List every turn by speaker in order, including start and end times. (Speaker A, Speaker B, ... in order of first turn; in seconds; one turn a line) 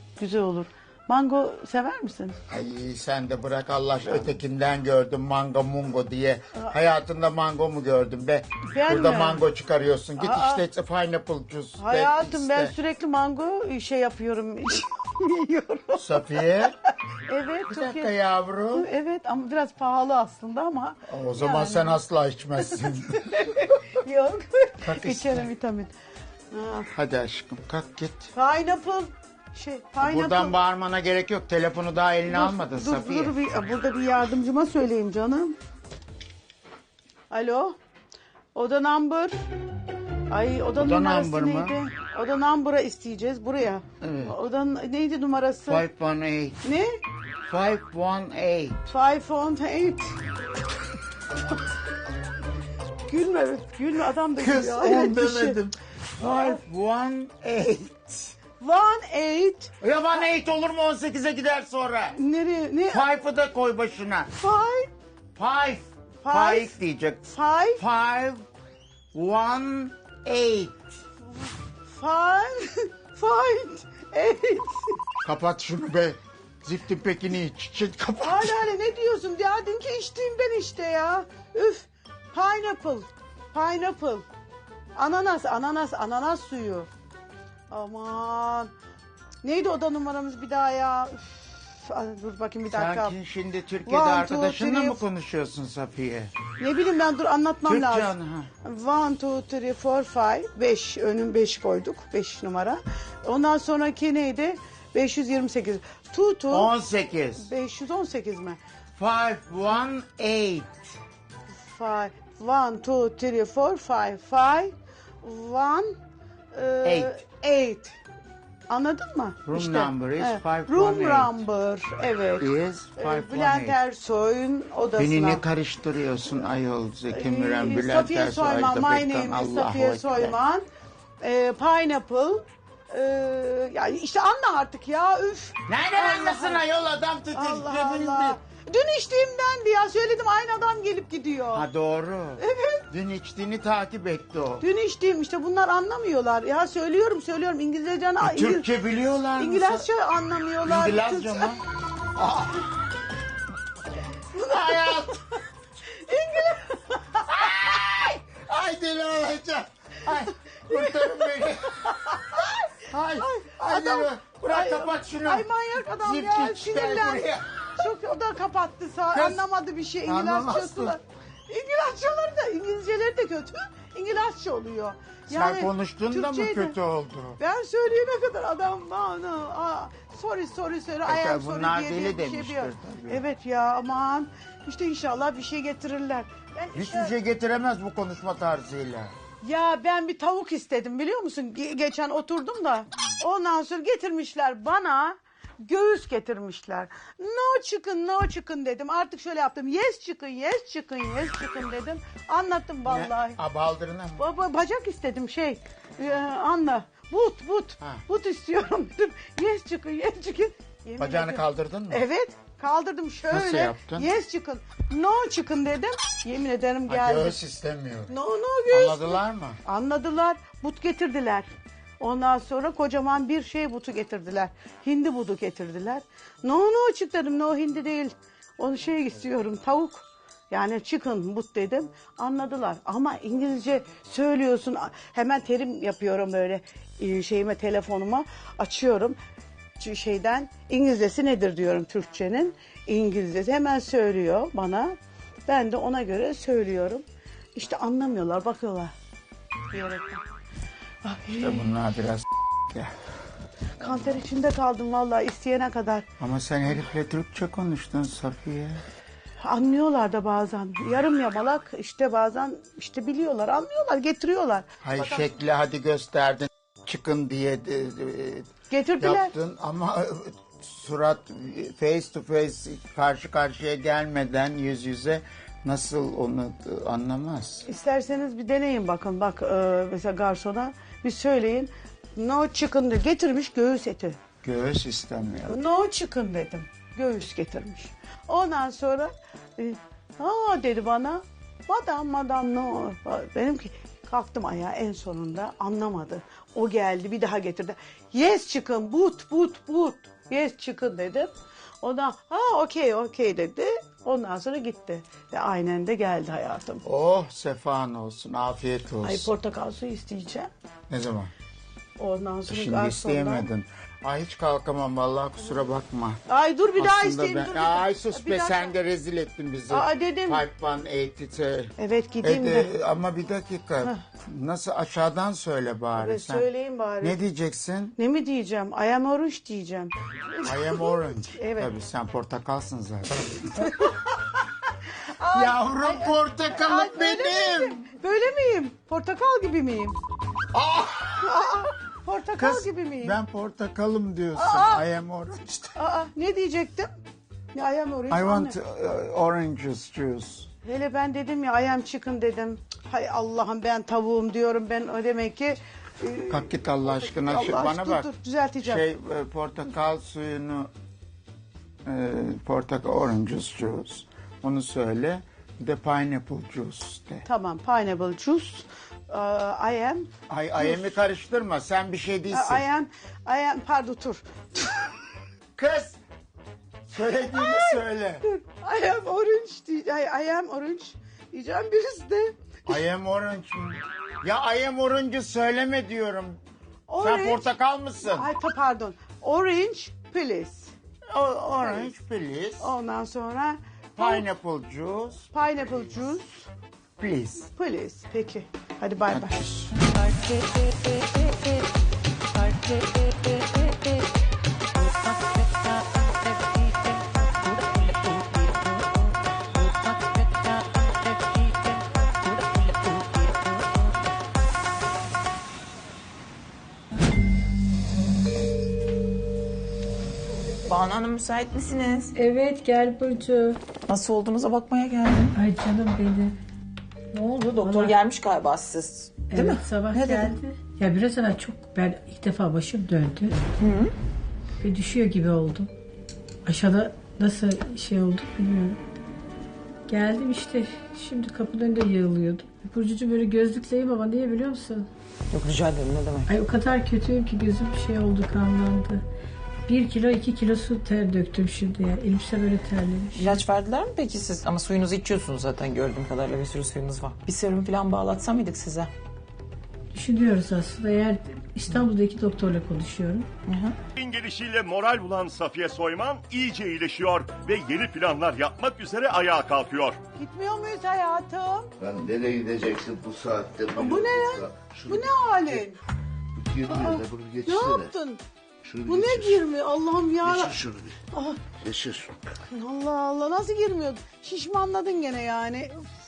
Speaker A: 0.2-2.4
Speaker B: 2.5-12.7
Speaker A: 8.7-9.4
Speaker A: 10.2-10.6
Speaker A: 11.8-16.2
Speaker B: 16.0-16.8
Speaker A: 17.3-18.1
Speaker B: 17.7-18.9
Speaker A: 18.7-22.0
Speaker B: 21.1-23.4
Speaker A: 22.6-25.9
Speaker B: 24.8-25.5
Speaker A: 26.5-26.9
Speaker B: 26.9-28.3
Speaker A: 28.4-30.6
Speaker B: 30.0-33.4
Speaker A: 32.3-35.5
Speaker A: 37.3-37.8
Speaker A: 38.5-39.3
Speaker A: 40.3-45.8
Speaker B: 40.8-41.8
Speaker B: 44.0-44.4
Speaker B: 45.7-46.6
Speaker A: 46.6-46.9
Speaker B: 47.5-48.9
Speaker A: 48.9-50.1
Speaker A: 53.1-55.6
Speaker B: 54.4-58.4
Speaker C: 55.1-55.6
Speaker A: 56.2-56.6
Speaker A: 58.6-59.7
Speaker B: 59.8-62.2
Speaker A: 62.2-63.0
Speaker B: 62.9-64.3
Speaker A: 64.4-64.9
Speaker B: 65.4-68.4
Speaker A: 66.2-66.7
Speaker A: 67.3-67.8
Speaker B: 69.1-70.8
Speaker A: 72.0-75.0
Speaker B: 75.2-78.6
Speaker A: 78.2-84.2
Speaker A: 85.0-86.9
Speaker A: 87.7-88.7
Speaker A: 89.4-93.2
Speaker B: 92.7-96.3
Speaker A: 93.9-95.0
Speaker A: 96.6-98.1
Speaker B: 97.7-98.5
Speaker A: 98.6-106.7
Speaker B: 106.5-107.5
Speaker A: 107.4-108.6
Speaker B: 109.0-111.0
Speaker A: 111.6-116.0
Speaker A: 116.5-118.0
Speaker B: 116.8-117.2
Speaker A: 118.7-125.4
Speaker B: 119.5-121.4
Speaker B: 122.4-123.8
Speaker B: 125.0-130.4
Speaker A: 127.1-130.6
Speaker A: 131.2-136.6
Speaker B: 135.7-138.4
Speaker A: 137.3-141.6
Speaker B: 141.5-144.6
Speaker A: 142.4-142.8
Speaker A: 144.6-148.7
Speaker B: 148.2-149.8
Speaker A: 149.4-151.5
Speaker B: 150.6-151.6
Speaker B: 152.2-152.7
Speaker A: 154.3-155.1
Speaker B: 154.4-155.2
Speaker A: 156.0-157.5
Speaker B: 157.3-167.9
Speaker A: 160.7-162.5
Speaker A: 163.2-167.3
Speaker A: 167.8-176.8
Speaker B: 169.1-169.4
Speaker B: 170.1-171.0
Speaker B: 175.3-177.4
Speaker A: 177.4-187.1
Speaker B: 181.1-183.2
Speaker B: 186.8-189.1
Speaker A: 189.4-203.4
Speaker B: 202.9-204.2
Speaker A: 204.2-217.4
Speaker B: 211.0-212.1
Speaker B: 213.3-214.1
Speaker B: 216.9-218.1
Speaker A: 218.1-221.5
Speaker B: 218.7-219.6
Speaker A: 222.0-239.2
Speaker A: 239.8-244.9
Speaker A: 245.5-247.0
Speaker A: 247.6-248.9
Speaker A: 249.7-250.2
Speaker A: 251.0-251.7
Speaker B: 251.4-252.9
Speaker A: 253.8-256.1
Speaker B: 256.2-258.8
Speaker A: 259.4-265.3
Speaker B: 264.8-277.7
Speaker A: 268.7-269.3
Speaker A: 277.7-284.2
Speaker B: 284.4-285.6
Speaker A: 285.5-306.8
Speaker B: 306.8-309.3
Speaker A: 309.0-310.5
Speaker B: 310.9-311.3
Speaker A: 312.0-313.5
Speaker B: 312.5-316.2
Speaker A: 315.4-315.7
Speaker A: 316.3-318.7
Speaker B: 316.8-326.5
Speaker A: 319.7-320.4
Speaker A: 321.8-322.7
Speaker A: 326.0-327.2
Speaker B: 327.0-327.9
Speaker A: 328.0-331.7
Speaker B: 330.4-333.9
Speaker A: 333.7-333.9
Speaker A: 335.2-340.0
Speaker B: 335.3-337.8
Speaker B: 340.5-341.5
Speaker A: 341.2-343.1
Speaker B: 342.4-345.8
Speaker A: 344.4-344.8
Speaker A: 345.8-346.9
Speaker A: 347.5-348.6
Speaker B: 348.1-350.5
Speaker A: 350.6-358.8
Speaker B: 356.3-358.1
Speaker B: 358.6-360.7
Speaker B: 361.9-367.3
Speaker A: 367.3-370.9
Speaker B: 370.3-372.6
Speaker A: 372.3-374.9
Speaker B: 375.6-376.0
Speaker B: 376.9-378.2
Speaker A: 377.2-382.3
Speaker B: 382.7-386.4
Speaker A: 386.9-387.5
Speaker B: 387.0-388.3
Speaker A: 388.1-390.7
Speaker B: 391.1-392.7
Speaker A: 391.6-391.9
Speaker A: 392.6-394.2
Speaker B: 394.0-395.3
Speaker A: 395.3-396.5
Speaker B: 397.0-397.5
Speaker A: 397.5-399.4
Speaker B: 399.1-399.7
Speaker D: 420.6-422.1
Speaker E: 422.1-423.6
Speaker D: 423.8-425.4
Speaker E: 425.3-426.3
Speaker E: 427.1-428.0
Speaker D: 427.2-430.4
Speaker E: 429.3-433.4
Speaker D: 433.6-433.9
Speaker E: 434.6-435.7
Speaker E: 436.5-438.8
Speaker E: 439.9-444.9
Speaker D: 445.3-446.3
Speaker E: 446.3-449.0
Speaker E: 449.7-453.5
Speaker D: 453.1-458.9
Speaker E: 459.9-463.3
Speaker D: 463.5-463.8
Speaker F: 464.0-470.0
Speaker A: 470.2-471.7
Speaker C: 471.8-475.7
Speaker A: 473.8-475.8
Speaker C: 476.4-477.9
Speaker A: 476.7-478.2
Speaker C: 478.6-479.5
Speaker A: 478.9-480.6
Speaker C: 480.2-481.0
Speaker A: 481.1-481.5
Speaker C: 481.5-482.2
Speaker A: 482.5-485.9